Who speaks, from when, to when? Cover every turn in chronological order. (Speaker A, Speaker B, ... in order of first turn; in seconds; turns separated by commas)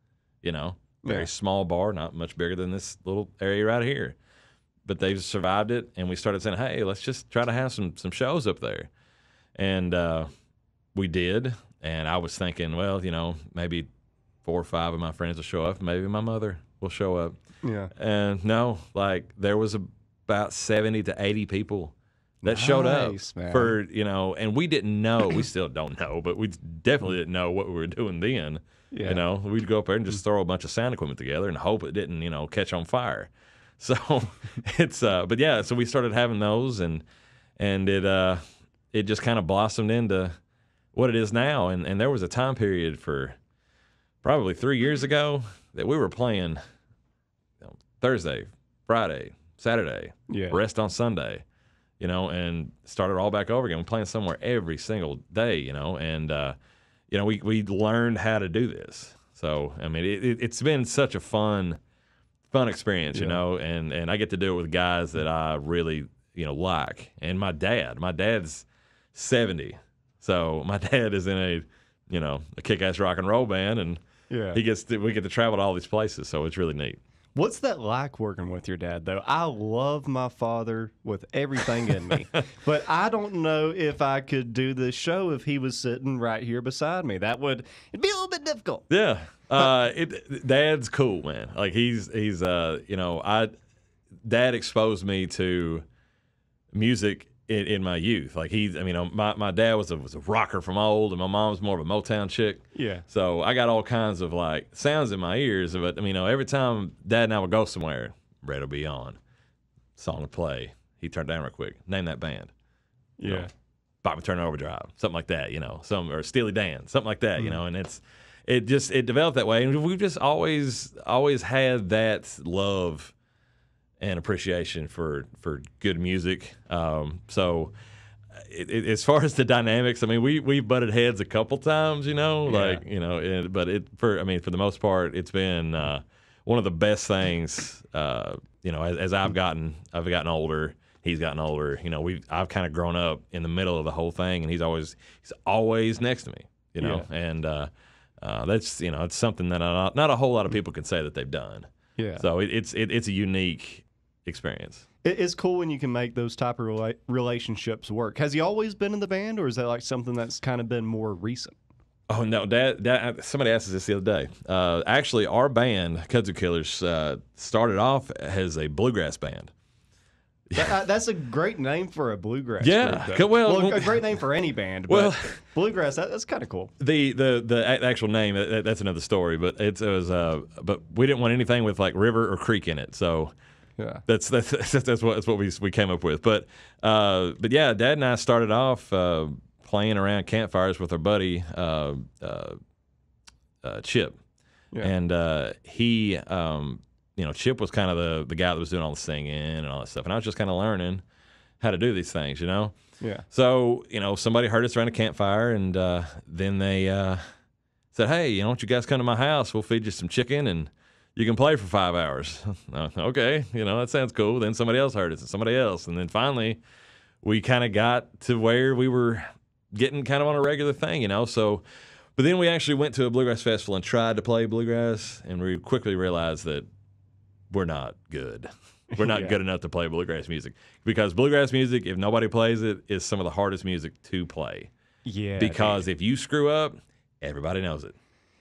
Speaker A: 0.4-4.2, Speaker B: 1.0-1.3, Speaker A: 4.8-8.9, Speaker A: 9.6-10.3, Speaker A: 10.9-13.9, Speaker A: 14.4-17.3, Speaker B: 17.6-17.9, Speaker A: 17.9-21.9, Speaker B: 22.4-23.7, Speaker A: 22.4-37.0, Speaker B: 28.9-29.2, Speaker A: 37.6-38.4, Speaker A: 38.9-40.3, Speaker A: 40.9-43.4, Speaker A: 44.2-46.6, Speaker A: 47.6-51.4, Speaker B: 50.3-50.6, Speaker A: 52.0-56.5, Speaker A: 57.1-61.8, Speaker A: 62.5-74.0, Speaker B: 63.1-63.4, Speaker B: 74.3-74.6, Speaker A: 74.5-77.0, Speaker B: 77.3-88.8, Speaker A: 88.9-93.5, Speaker A: 94.2-95.8, Speaker A: 96.7-109.2, Speaker B: 102.7-103.0, Speaker A: 110.0-112.5, Speaker B: 113.2-113.5, Speaker A: 114.0-123.1, Speaker A: 124.0-127.7, Speaker A: 128.3-154.8, Speaker B: 132.4-132.8, Speaker B: 146.8-147.1, Speaker B: 152.0-152.2, Speaker B: 155.0-161.6, Speaker A: 162.1-169.5, Speaker B: 170.5-176.7, Speaker A: 172.6-174.0, Speaker A: 174.9-175.4, Speaker A: 176.8-183.3, Speaker B: 183.8-184.0, Speaker A: 184.1-192.6, Speaker A: 193.6-194.2, Speaker A: 194.8-201.0, Speaker A: 201.6-202.7, Speaker B: 203.0-203.2, Speaker A: 203.3-207.2, Speaker A: 207.9-216.6, Speaker A: 217.2-221.6, Speaker A: 222.1-226.7, Speaker A: 227.5-234.7, Speaker B: 228.9-229.4, Speaker B: 235.1-235.8, Speaker A: 235.4-237.9